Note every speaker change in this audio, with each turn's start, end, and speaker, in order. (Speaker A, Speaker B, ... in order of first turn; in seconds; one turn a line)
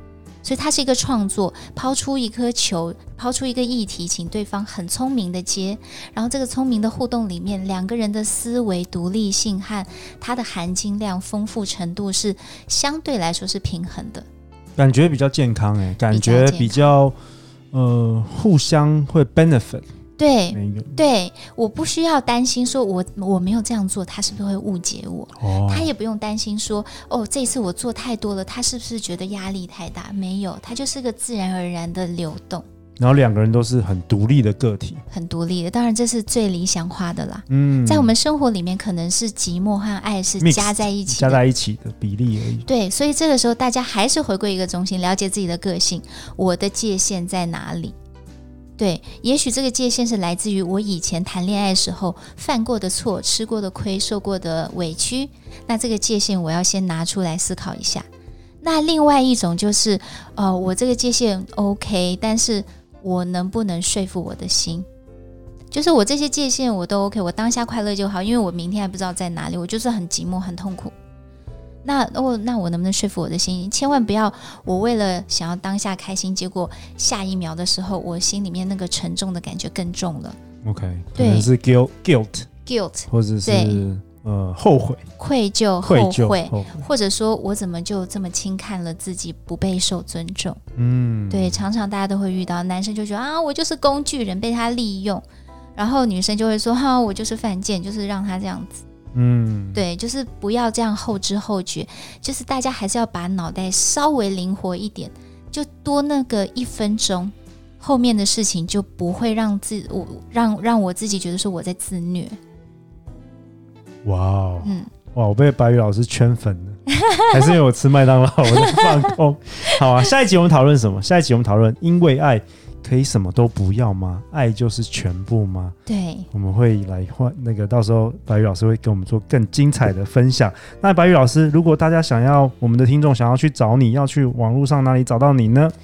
Speaker A: 0.4-14.3
Speaker B: 14.8-17.1
Speaker A: 16.1-16.9
Speaker B: 17.7-19.9
Speaker A: 20.2-32.7
Speaker B: 20.5-21.0
Speaker B: 25.4-25.9
Speaker B: 33.0-35.0
Speaker A: 35.1-41.4
Speaker B: 37.5-38.2
Speaker B: 40.4-42.7
Speaker A: 42.7-48.0
Speaker A: 48.8-58.1
Speaker A: 58.6-64.9
Speaker A: 65.7-71.0
Speaker A: 71.8-80.4
Speaker B: 80.6-82.5
Speaker A: 81.2-81.5
Speaker A: 82.7-83.8
Speaker B: 83.1-85.0
Speaker A: 85.2-90.6
Speaker B: 85.8-86.9
Speaker B: 90.8-91.6
Speaker A: 91.3-95.2
Speaker A: 95.8-98.8
Speaker B: 99.1-99.9
Speaker A: 99.8-112.4
Speaker B: 114.0-125.8
Speaker A: 114.6-114.9
Speaker A: 117.0-117.3
Speaker A: 125.9-126.3
Speaker B: 126.3-135.7